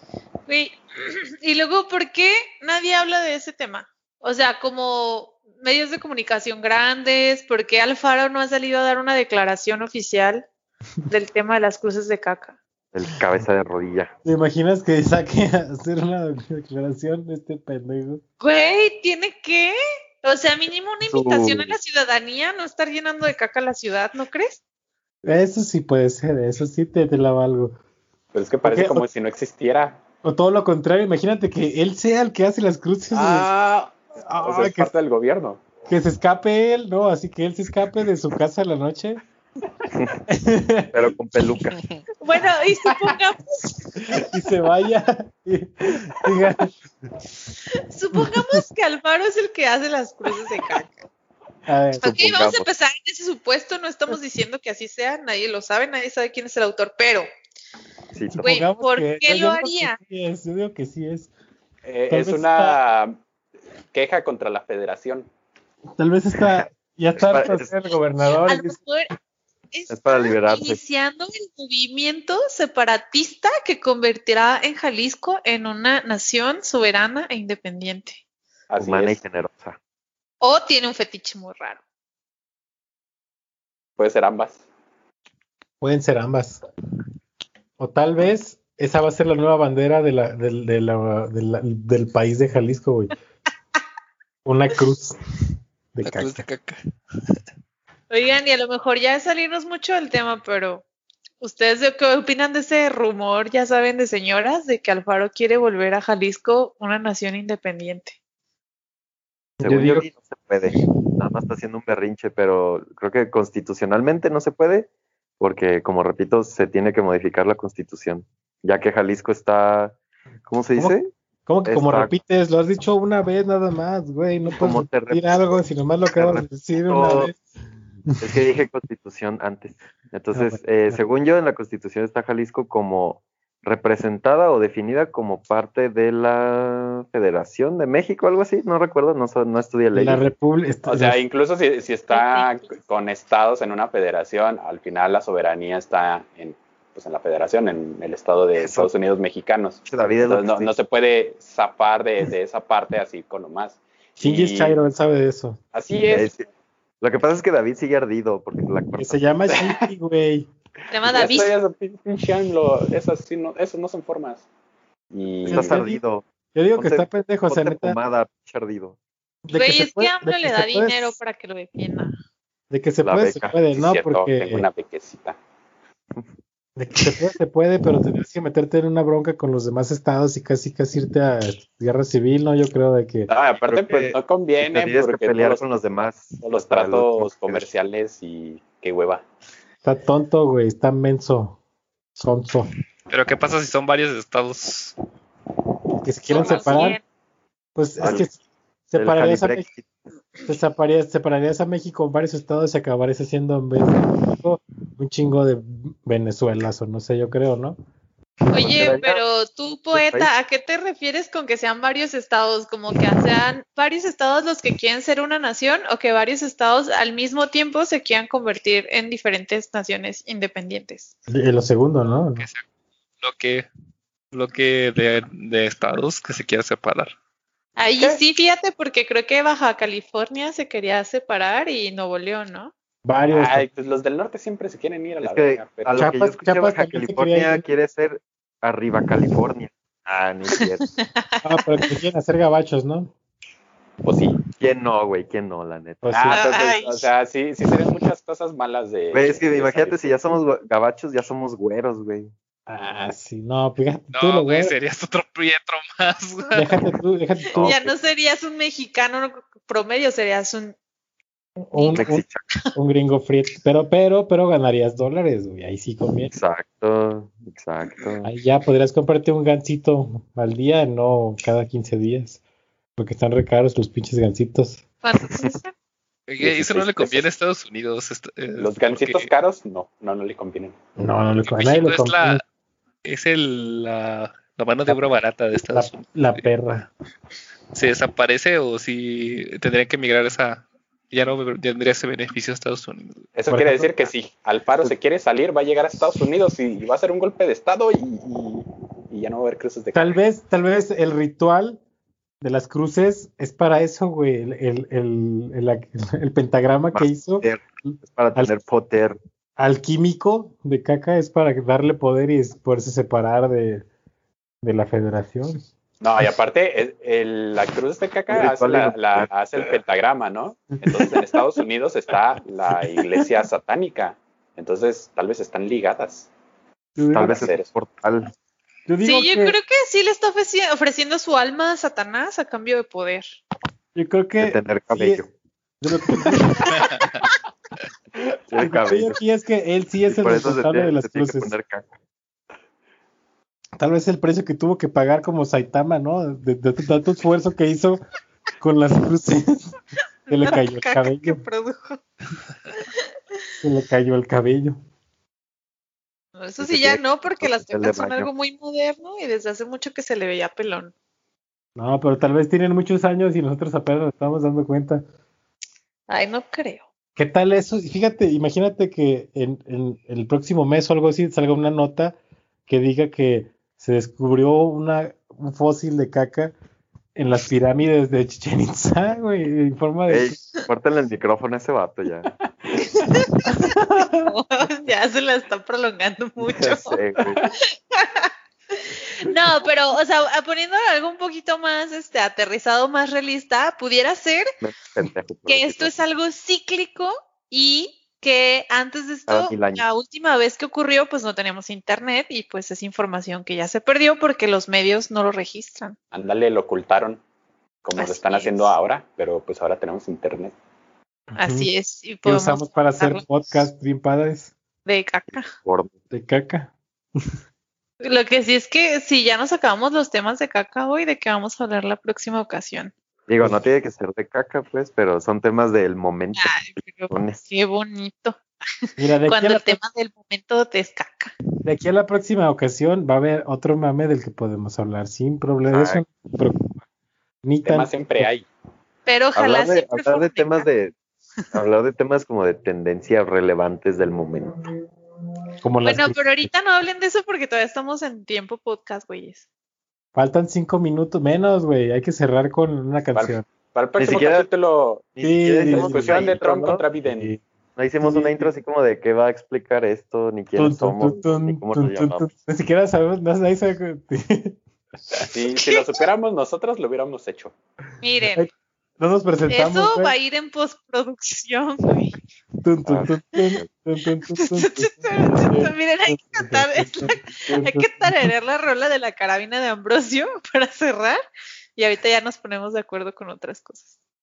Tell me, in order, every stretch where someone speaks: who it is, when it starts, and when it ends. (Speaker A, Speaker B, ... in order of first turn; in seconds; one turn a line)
Speaker A: 0.5-10.4
Speaker A: 11.1-12.6
Speaker B: 12.9-14.1
Speaker C: 14.2-18.2
Speaker A: 18.4-24.6
Speaker B: 21.0-21.8
Speaker C: 25.2-27.8
Speaker D: 28.3-30.0
Speaker C: 28.6-29.1
Speaker C: 30.2-33.5
Speaker D: 33.1-35.6
Speaker C: 34.2-34.9
Speaker C: 35.9-39.2
Speaker C: 40.3-40.9
Speaker B: 40.9-41.8
Speaker A: 42.2-43.8
Speaker D: 42.9-43.1
Speaker C: 44.0-46.7
Speaker A: 47.9-51.0
Speaker C: 48.1-48.6
Speaker C: 51.7-52.2
Speaker A: 52.0-57.3
Speaker B: 52.0-52.7
Speaker B: 58.1-58.5
Speaker C: 58.3-61.3
Speaker A: 58.4-60.0
Speaker D: 61.8-63.2
Speaker C: 62.1-62.8
Speaker D: 63.9-65.3
Speaker C: 66.0-68.8
Speaker B: 67.2-67.7
Speaker A: 68.5-69.1
Speaker A: 69.7-78.2
Speaker B: 69.9-70.8
Speaker D: 78.7-79.2
Speaker B: 78.8-79.8
Speaker A: 80.4-81.8
Speaker D: 84.0-84.6
Speaker C: 85.8-86.6
Speaker C: 87.8-93.1
Speaker C: 94.4-95.2
Speaker C: 95.9-96.5
Speaker E: 96.0-96.8
Speaker A: 98.1-100.8
Speaker A: 101.4-108.2
Speaker C: 109.6-110.1
Speaker B: 109.6-114.9
Speaker B: 115.4-120.0
Speaker B: 120.5-121.1
Speaker C: 120.8-127.4
Speaker B: 121.6-122.1
Speaker B: 124.6-125.4
Speaker B: 126.2-127.3
Speaker B: 128.2-140.2
Speaker C: 130.3-131.0
Speaker C: 139.9-141.2
Speaker D: 140.9-154.8
Speaker A: 142.1-142.5
Speaker B: 148.5-148.9
Speaker B: 149.8-150.7
Speaker C: 154.2-155.6
Speaker D: 155.7-156.3
Speaker B: 156.1-156.4
Speaker B: 157.0-159.2
Speaker C: 159.0-160.5
Speaker D: 159.5-159.8
Speaker A: 160.9-161.5
Speaker D: 161.0-164.4
Speaker D: 165.1-165.8
Speaker C: 165.5-166.0
Speaker B: 165.5-169.0
Speaker C: 166.5-168.0
Speaker C: 169.4-171.2
Speaker A: 169.5-172.1
Speaker C: 172.7-174.7
Speaker B: 173.0-173.6
Speaker D: 173.7-175.4
Speaker C: 176.8-183.3
Speaker D: 183.3-185.6
Speaker B: 183.6-187.7
Speaker D: 186.4-189.2
Speaker C: 189.8-191.6
Speaker C: 192.2-192.7
Speaker E: 193.1-194.9
Speaker C: 196.0-197.0
Speaker A: 196.3-197.0
Speaker C: 197.8-199.7
Speaker B: 198.0-198.2
Speaker B: 198.9-199.9
Speaker C: 200.4-207.8
Speaker A: 208.5-221.1
Speaker B: 208.5-209.2
Speaker B: 209.9-210.3
Speaker C: 221.3-222.5
Speaker E: 222.4-222.6
Speaker E: 223.2-223.7
Speaker E: 224.3-227.1
Speaker A: 227.8-232.7
Speaker C: 233.0-233.7
Speaker D: 233.3-236.0
Speaker B: 235.2-240.8
Speaker C: 235.9-237.6
Speaker C: 241.4-243.1
Speaker D: 244.0-244.4
Speaker B: 244.6-246.1
Speaker C: 246.0-246.4
Speaker D: 246.1-250.3
Speaker A: 246.3-247.1
Speaker B: 249.1-252.3
Speaker C: 252.7-254.7
Speaker E: 254.1-256.7
Speaker C: 256.5-257.8
Speaker B: 257.5-257.9
Speaker A: 257.6-260.7
Speaker C: 261.6-262.2
Speaker A: 261.7-262.1
Speaker B: 261.9-262.4
Speaker C: 262.7-266.3
Speaker B: 266.3-268.3
Speaker C: 268.2-272.4
Speaker C: 273.0-274.8
Speaker A: 275.0-275.7
Speaker E: 276.3-279.3
Speaker D: 276.4-277.2
Speaker D: 278.6-280.8
Speaker C: 281.0-282.4
Speaker E: 281.4-282.4
Speaker E: 283.0-286.4
Speaker C: 284.9-285.1
Speaker C: 285.7-286.9
Speaker E: 287.7-293.2
Speaker D: 293.3-300.2
Speaker C: 293.5-293.9
Speaker C: 299.9-301.8
Speaker C: 302.4-308.5
Speaker B: 306.9-309.2
Speaker C: 309.6-313.9
Speaker C: 314.6-315.6
Speaker D: 316.0-326.3
Speaker B: 318.3-319.3
Speaker C: 326.9-327.5
Speaker B: 327.1-328.3
Speaker D: 327.2-327.7
Speaker C: 328.9-329.6
Speaker A: 329.0-333.4
Speaker C: 333.9-335.2
Speaker B: 334.4-335.3
Speaker C: 335.8-336.9
Speaker E: 336.9-337.1
Speaker B: 338.5-339.2
Speaker C: 338.6-341.6
Speaker B: 340.1-341.9
Speaker C: 343.8-348.0
Speaker C: 348.6-349.8
Speaker A: 350.3-352.0
Speaker C: 350.3-351.4
Speaker A: 352.8-353.0
Speaker C: 353.6-354.8
Speaker A: 356.4-360.9
Speaker B: 356.6-358.3
Speaker C: 361.8-365.0
Speaker A: 366.1-366.8
Speaker C: 367.1-376.5
Speaker C: 377.1-380.4
Speaker B: 380.1-382.3
Speaker A: 383.0-387.0
Speaker B: 386.4-387.4
Speaker A: 387.5-394.5
Speaker B: 394.6-396.0
Speaker A: 395.5-405.9
Speaker B: 399.3-399.8
Speaker D: 406.1-407.2
Speaker D: 407.8-410.5
Speaker A: 407.9-408.7
Speaker C: 411.3-411.7
Speaker A: 411.4-413.2
Speaker C: 412.2-414.5
Speaker A: 414.9-415.5
Speaker B: 415.3-415.9
Speaker C: 416.1-416.7
Speaker A: 418.0-422.9
Speaker B: 423.3-426.6
Speaker A: 426.4-428.4
Speaker B: 427.1-427.4
Speaker C: 429.0-429.8
Speaker A: 429.3-431.3
Speaker C: 431.6-436.8
Speaker B: 435.7-436.0
Speaker C: 437.4-438.3
Speaker D: 437.6-438.4
Speaker A: 439.1-440.6
Speaker B: 439.3-440.9
Speaker B: 441.5-444.6
Speaker C: 445.6-446.5
Speaker A: 445.8-449.4
Speaker C: 450.1-453.4
Speaker D: 453.1-455.1
Speaker B: 454.0-454.5
Speaker B: 455.1-456.8
Speaker C: 455.2-456.4
Speaker D: 455.6-457.3
Speaker C: 457.0-457.4
Speaker B: 457.8-462.3
Speaker C: 458.0-458.5
Speaker C: 460.6-464.6
Speaker D: 465.3-467.5
Speaker A: 468.0-468.4
Speaker C: 468.3-470.1
Speaker A: 469.5-472.1
Speaker C: 472.6-478.3
Speaker B: 472.8-473.1
Speaker A: 474.4-481.2
Speaker A: 481.8-483.9